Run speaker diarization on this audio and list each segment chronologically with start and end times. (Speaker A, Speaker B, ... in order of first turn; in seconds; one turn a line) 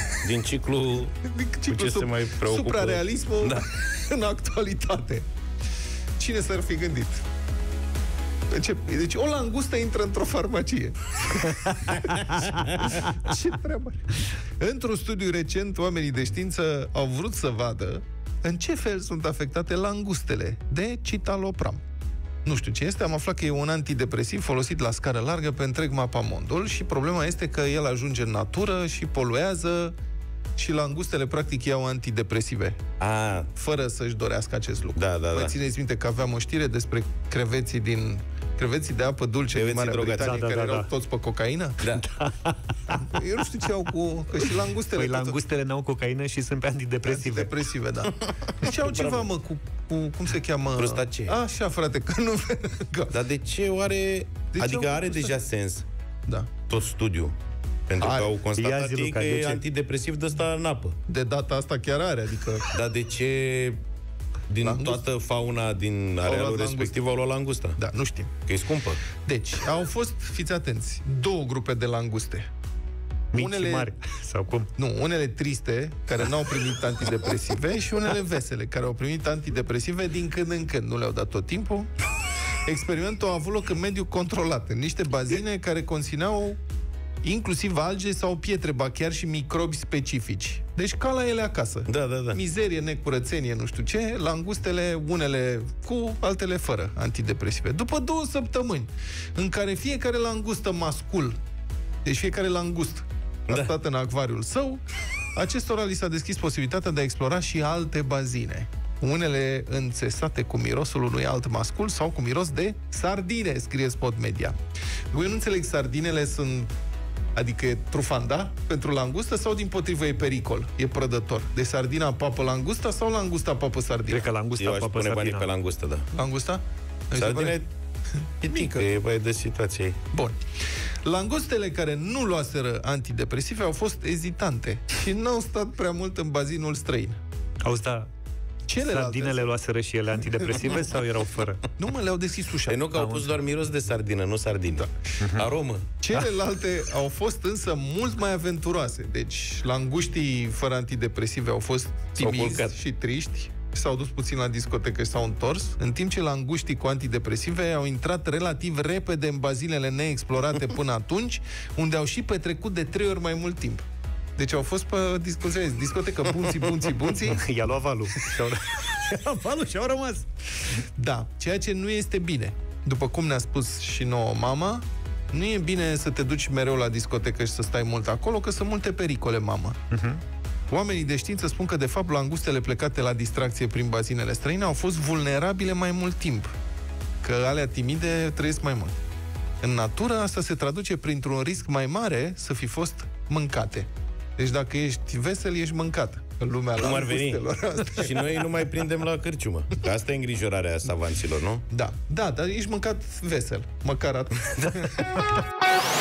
Speaker A: 0.2-1.1
Speaker B: 1.2-5.3
Speaker A: 1.7-3.7
Speaker B: 6.2-7.2
Speaker B: 8.5-21.8
Speaker B: 22.4-29.9
Speaker B: 30.6-32.8
Speaker A: 33.0-33.5
Speaker B: 33.5-41.8
Speaker A: 35.0-35.5
Speaker A: 39.5-40.4
Speaker C: 40.2-40.9
Speaker A: 41.8-42.0
Speaker C: 42.0-43.0
Speaker B: 42.9-45.4
Speaker C: 44.8-47.6
Speaker B: 47.0-53.1
Speaker A: 48.8-49.3
Speaker A: 50.8-51.4
Speaker A: 53.1-55.9
Speaker B: 54.5-55.4
Speaker B: 56.2-56.5
Speaker A: 56.7-57.3
Speaker A: 57.9-61.0
Speaker B: 58.0-58.4
Speaker C: 58.5-59.6
Speaker B: 61.1-62.7
Speaker A: 62.7-63.8
Speaker A: 64.5-67.8
Speaker B: 64.6-65.0
Speaker B: 66.2-67.0
Speaker B: 67.8-68.3
Speaker A: 68.5-69.0
Speaker B: 69.2-72.5
Speaker C: 73.3-74.7
Speaker B: 73.3-73.9
Speaker B: 74.8-81.9
Speaker B: 82.6-86.6
Speaker B: 87.2-101.4
Speaker A: 91.9-92.4
Speaker B: 102.0-104.8
Speaker A: 103.5-103.7
Speaker B: 105.3-114.5
Speaker B: 115.1-116.7
Speaker B: 117.3-124.3
Speaker C: 124.1-125.5
Speaker A: 124.6-126.1
Speaker B: 126.1-127.6
Speaker A: 127.1-127.7
Speaker B: 128.2-128.9
Speaker A: 128.4-130.0
Speaker B: 131.0-137.2
Speaker C: 137.6-138.1
Speaker B: 138.7-139.5
Speaker C: 138.8-141.6
Speaker B: 141.8-142.9
Speaker A: 142.7-145.8
Speaker C: 142.9-143.3
Speaker C: 145.2-145.4
Speaker B: 146.0-167.4
Speaker A: 152.2-152.7
Speaker C: 167.3-170.2
Speaker B: 170.9-179.8
Speaker C: 179.9-180.2
Speaker B: 180.7-186.5
Speaker B: 187.2-188.9
Speaker B: 189.6-198.5
Speaker A: 196.8-201.6
Speaker B: 201.7-205.1
Speaker A: 204.6-205.0